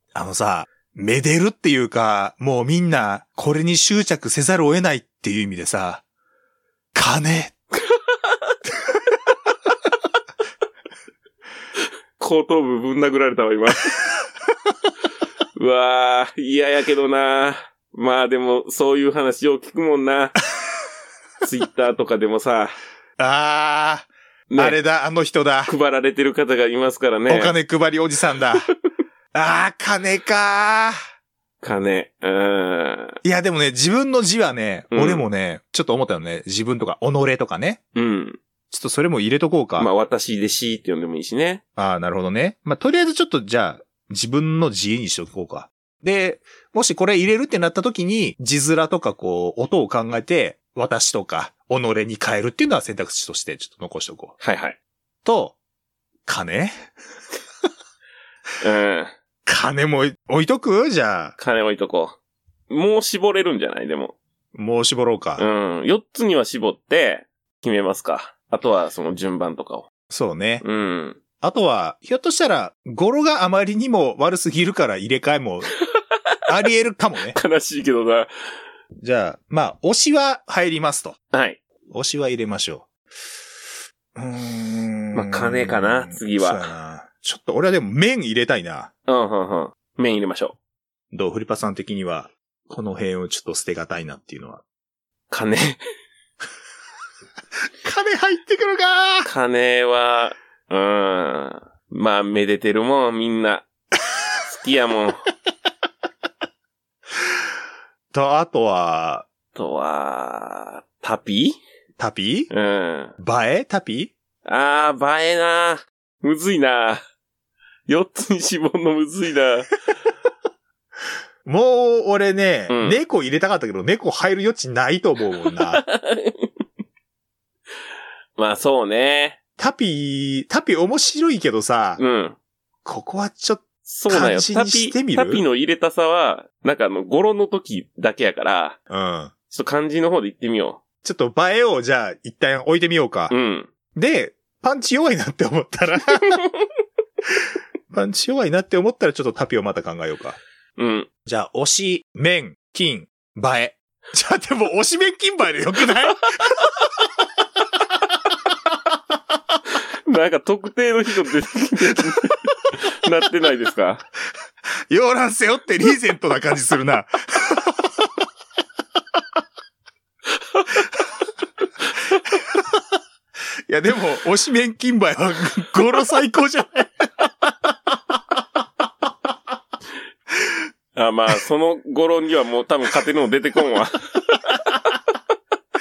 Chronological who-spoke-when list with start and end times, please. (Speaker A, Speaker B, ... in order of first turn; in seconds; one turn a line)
Speaker A: 0.1-6.0
Speaker A: 6.9-7.5
Speaker B: 7.8-8.5
Speaker B: 12.2-14.0
Speaker B: 15.6-20.4
Speaker B: 21.4-22.8
Speaker A: 23.2-25.7
Speaker B: 24.5-24.8
Speaker B: 25.6-27.6
Speaker A: 27.3-28.7
Speaker A: 29.3-30.9
Speaker B: 31.6-33.1
Speaker A: 33.2-37.8
Speaker B: 34.9-35.2
Speaker B: 37.9-38.4
Speaker A: 38.7-39.9
Speaker B: 39.8-41.6
Speaker A: 41.8-54.3
Speaker B: 54.4-54.8
Speaker A: 55.2-55.5
Speaker A: 56.2-56.9
Speaker B: 58.6-59.1
Speaker A: 59.5-61.3
Speaker B: 61.4-62.2
Speaker B: 62.7-64.2
Speaker A: 64.5-65.5
Speaker B: 65.4-69.8
Speaker A: 70.1-70.6
Speaker B: 70.6-71.2
Speaker A: 71.4-75.7
Speaker A: 76.5-77.4
Speaker B: 77.3-78.3
Speaker A: 79.0-81.2
Speaker B: 81.3-81.6
Speaker A: 81.9-82.9
Speaker A: 84.1-88.9
Speaker B: 85.1-86.7
Speaker B: 89.1-90.5
Speaker A: 91.1-94.6
Speaker B: 95.3-95.8
Speaker A: 97.8-99.3
Speaker B: 99.2-103.6
Speaker B: 104.5-105.2
Speaker A: 108.1-109.2
Speaker B: 109.5-111.6
Speaker A: 112.0-112.5
Speaker B: 112.5-113.1
Speaker A: 113.2-114.1
Speaker B: 114.5-117.0
Speaker B: 117.9-119.7
Speaker A: 121.5-125.8
Speaker B: 122.7-123.0
Speaker B: 125.5-126.5
Speaker B: 128.4-129.4
Speaker A: 129.6-132.0
Speaker B: 132.0-132.4
Speaker A: 132.8-135.4
Speaker B: 133.8-138.8
Speaker A: 138.9-139.3
Speaker B: 139.5-140.8
Speaker A: 141.0-143.3
Speaker B: 143.3-143.7
Speaker A: 143.9-146.5
Speaker A: 147.3-150.4
Speaker B: 150.8-151.1
Speaker A: 151.2-156.8
Speaker B: 160.1-164.1
Speaker A: 164.9-168.1
Speaker A: 172.3-172.8
Speaker A: 173.7-178.2
Speaker B: 180.9-184.8